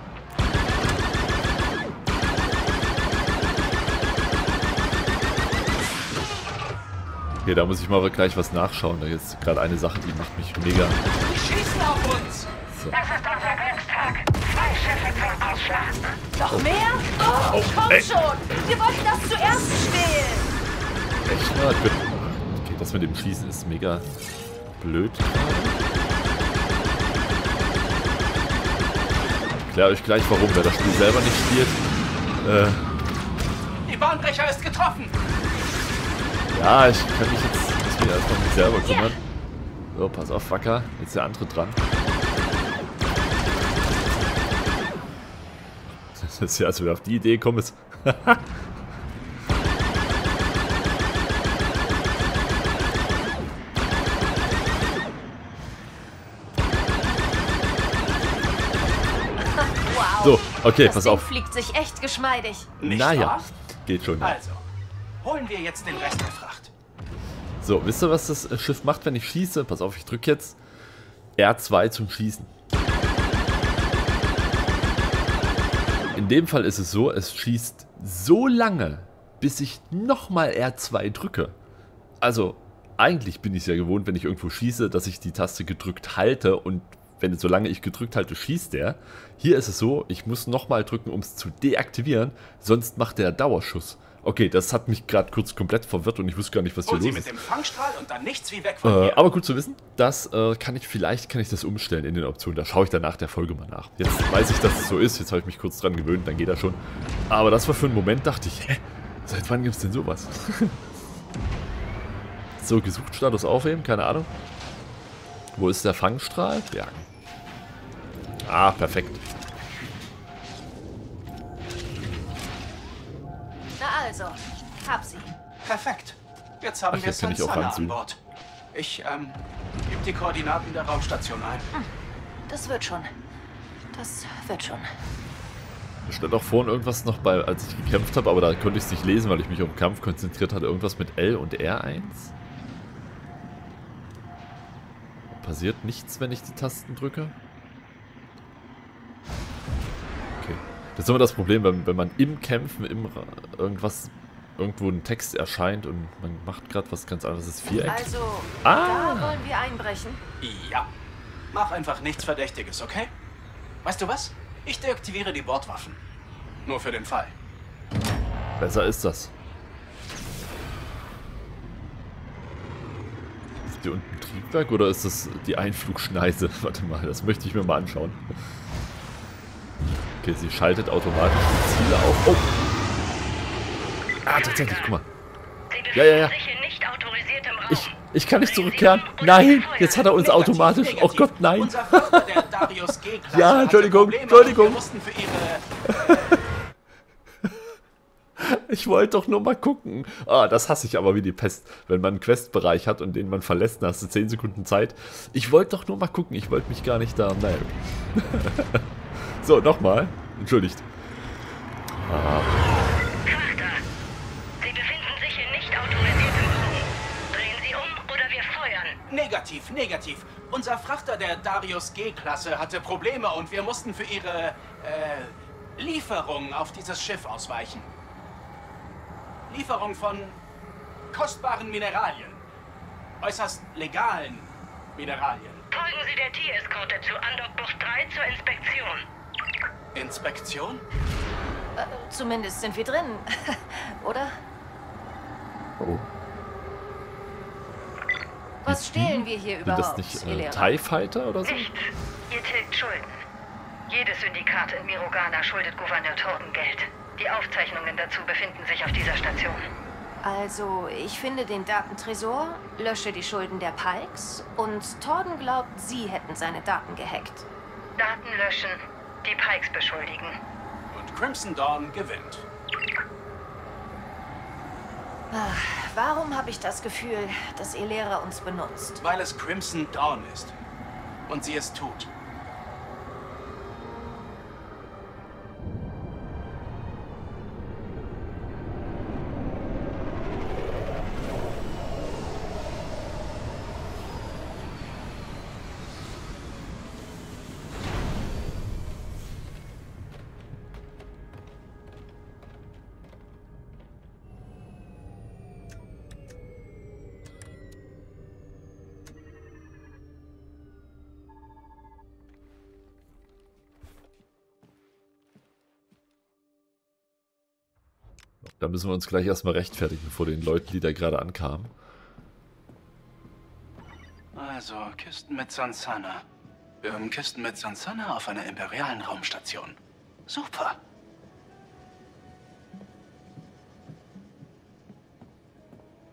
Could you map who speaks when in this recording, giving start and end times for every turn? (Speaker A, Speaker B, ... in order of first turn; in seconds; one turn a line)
Speaker A: 7.4-11.0
Speaker B: 11.2-12.5
Speaker A: 12.7-13.0
Speaker C: 13.4-13.8
Speaker C: 15.0-15.6
Speaker D: 16.4-20.5
Speaker A: 17.5-18.1
Speaker A: 21.3-24.1
Speaker A: 24.8-25.8
Speaker A: 29.7-31.8
Speaker A: 32.4-32.9
Speaker B: 33.9-35.1
Speaker A: 36.5-39.2
Speaker D: 38.8-39.2
Speaker A: 39.9-41.8
Speaker A: 46.1-48.5
Speaker D: 59.4-62.7
Speaker A: 60.2-61.3
Speaker B: 62.8-63.5
Speaker A: 62.8-64.4
Speaker B: 64.2-64.6
Speaker B: 65.2-66.7
Speaker A: 67.6-70.6
Speaker A: 71.4-72.5
Speaker A: 76.2-81.6
Speaker A: 82.2-97.3
Speaker B: 96.9-99.2
Speaker A: 98.8-110.8
Speaker A: 112.6-114.3
Speaker A: 115.6-117.0
Speaker A: 118.5-119.2
Speaker D: 123.8-125.3
Speaker B: 125.6-128.2
Speaker A: 126.9-128.0
Speaker B: 128.7-131.7
Speaker D: 132.5-133.1
Speaker D: 133.9-134.9
Speaker A: 136.1-142.3
Speaker A: 145.3-147.3
Speaker A: 150.4-158.1
Speaker D: 157.8-160.2
Speaker A: 158.6-159.4
Speaker B: 160.4-160.9
Speaker B: 161.5-163.1
Speaker B: 163.8-166.0
Speaker B: 166.7-167.3
Speaker A: 168.6-169.3
Speaker A: 173.7-178.2
Speaker A: 180.2-182.6
Speaker A: 184.2-185.1
Speaker C: 184.3-184.9
Speaker C: 185.7-190.1
Speaker A: 185.9-186.3
Speaker A: 187.7-192.7
Speaker B: 190.2-196.4
Speaker A: 193.3-194.8
Speaker A: 195.9-196.4
Speaker A: 198.4-208.8
Speaker A: 209.4-210.9
Speaker A: 212.0-212.7
Speaker C: 213.2-213.8
Speaker C: 214.6-218.9
Speaker B: 219.1-227.9
Speaker B: 229.5-230.4
Speaker B: 231.1-232.4
Speaker B: 233.2-235.6
Speaker C: 235.7-239.0
Speaker B: 239.9-240.8
Speaker D: 241.8-244.4
Speaker A: 245.8-246.1
Speaker D: 248.6-250.8
Speaker A: 248.7-251.7
Speaker C: 251.4-253.2
Speaker C: 253.9-259.6
Speaker D: 260.2-267.5
Speaker C: 268.0-270.4
Speaker B: 270.9-272.5
Speaker D: 275.3-279.0
Speaker B: 279.0-280.6
Speaker B: 281.3-282.1
Speaker A: 318.5-321.7
Speaker B: 324.4-326.2
Speaker B: 326.8-329.8
Speaker B: 330.3-330.8